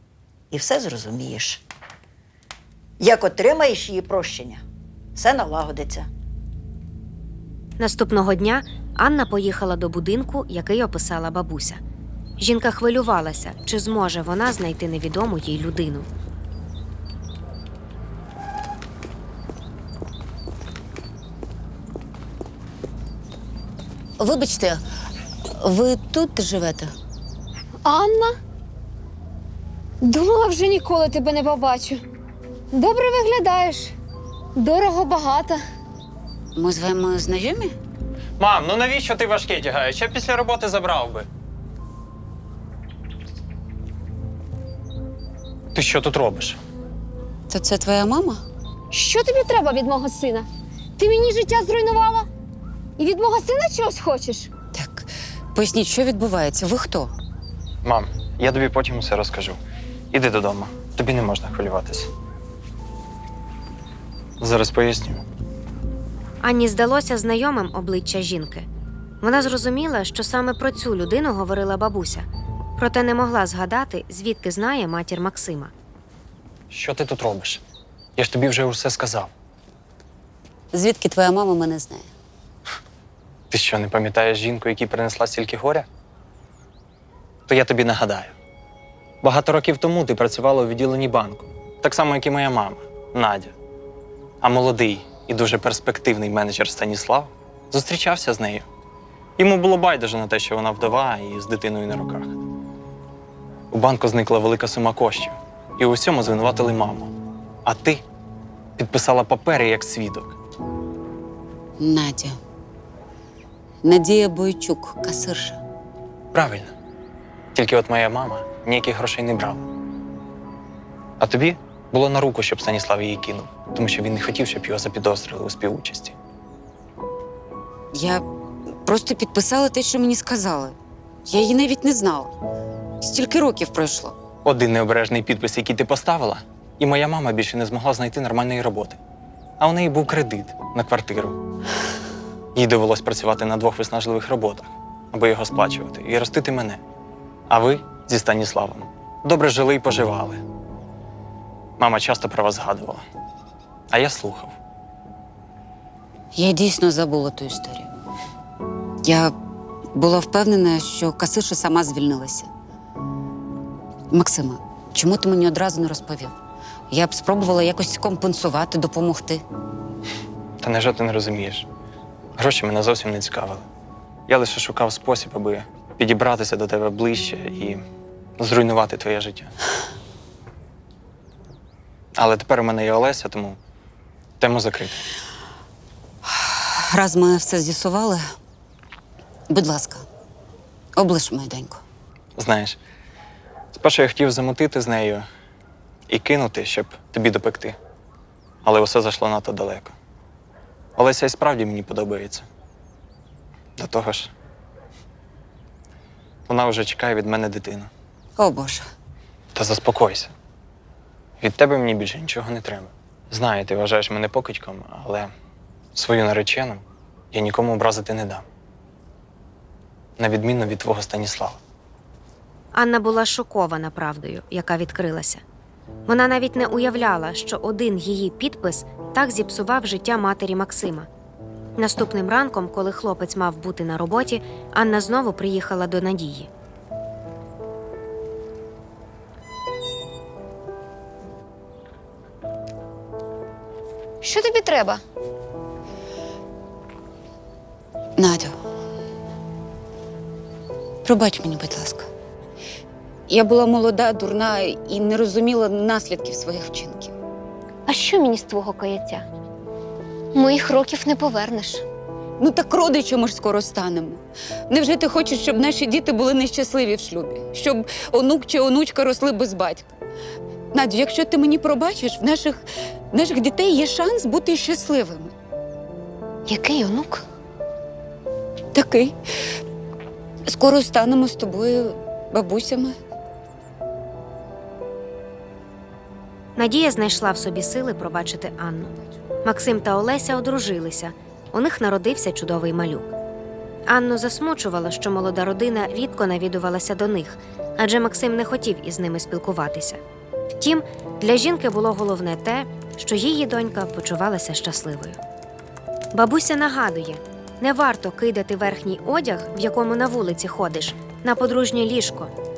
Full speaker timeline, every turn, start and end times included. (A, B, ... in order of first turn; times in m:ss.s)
0:00.5-0:01.6 A
0:03.0-0:04.6 A
0:05.2-0:06.1 A
0:07.8-0:11.8 B
0:12.4-0:16.1 B
0:24.2-0:24.8 C
0:25.6-0:26.9 C
0:27.8-0:28.3 D
0:30.0-0:32.0 D
0:32.7-0:33.9 D
0:34.6-0:35.6 D
0:36.6-0:37.8 C
0:38.4-0:41.3 E
0:45.8-0:46.6 E
0:47.5-0:48.4 C
0:48.9-0:50.5 D
0:51.0-0:52.3 D
0:53.0-0:54.5 D
0:54.7-0:57.1 C
0:57.8-0:59.6 E
1:00.1-1:02.1 E
1:04.4-1:05.2 E
1:06.4-1:08.7 B
1:09.2-1:15.7 B
1:16.7-1:17.6 E
1:18.2-1:19.3 E
1:20.7-1:22.1 C
1:23.5-1:25.9 E
1:27.5-1:28.3 E
1:29.2-1:33.5 E
1:34.4-1:38.6 E
1:39.4-1:42.4 E
1:43.7-1:47.1 E
1:47.6-1:48.0 E
1:48.8-1:50.4 E
1:51.8-1:52.4 C
1:53.8-1:55.6 C
1:56.3-1:56.7 E
1:57.6-1:59.7 E
2:01.2-2:06.2 E
2:07.9-2:08.2 C
2:08.8-2:12.3 C
2:13.0-2:14.2 C
2:14.4-2:19.0 E
2:19.6-2:21.4 E
2:22.6-2:26.8 E
2:27.5-2:30.4 E
2:31.8-2:33.0 E
2:33.9-2:34.6 E
2:36.4-2:37.9 C
2:39.0-2:39.3 C
2:39.9-2:42.5 C
2:44.1-2:46.4 C
2:46.9-2:49.4 C
2:50.6-2:51.6 E
2:52.4-2:53.6 E
2:54.3-2:57.8 E
2:58.4-2:59.5 E
3:02.2-3:03.6 E
3:04.4-3:05.0 E
3:06.3-3:08.2 C
3:09.5-3:10.1 C
3:11.0-3:11.8 C
3:12.4-3:12.8 E
3:13.7-3:15.3 E
3:16.1-3:17.8 E
3:18.6-3:19.9 E
3:21.0-3:22.5 E
3:23.8-3:24.3 E
3:26.5-3:27.9 E
3:28.4-3:28.9 C
3:29.6-3:30.3 E
3:31.4-3:35.3 E
3:35.9-3:38.4 E
3:40.2-3:41.6 E
3:42.7-3:45.4 B
3:46.1-3:51.1 B
3:51.8-3:56.5 B
4:04.2-4:05.0 D
4:08.2-4:08.6 C
4:11.0-4:12.1 C
4:13.3-4:17.1 C
4:17.9-4:19.2 D
4:20.3-4:21.8 D
4:22.4-4:29.9 C
4:30.7-4:35.3 C
4:36.5-4:37.2 D
4:38.7-4:39.1 C
4:40.5-4:42.9 C
4:46.6-4:53.1 B
4:53.9-5:00.0 B
5:00.6-5:05.2 B
5:06.1-5:12.3 B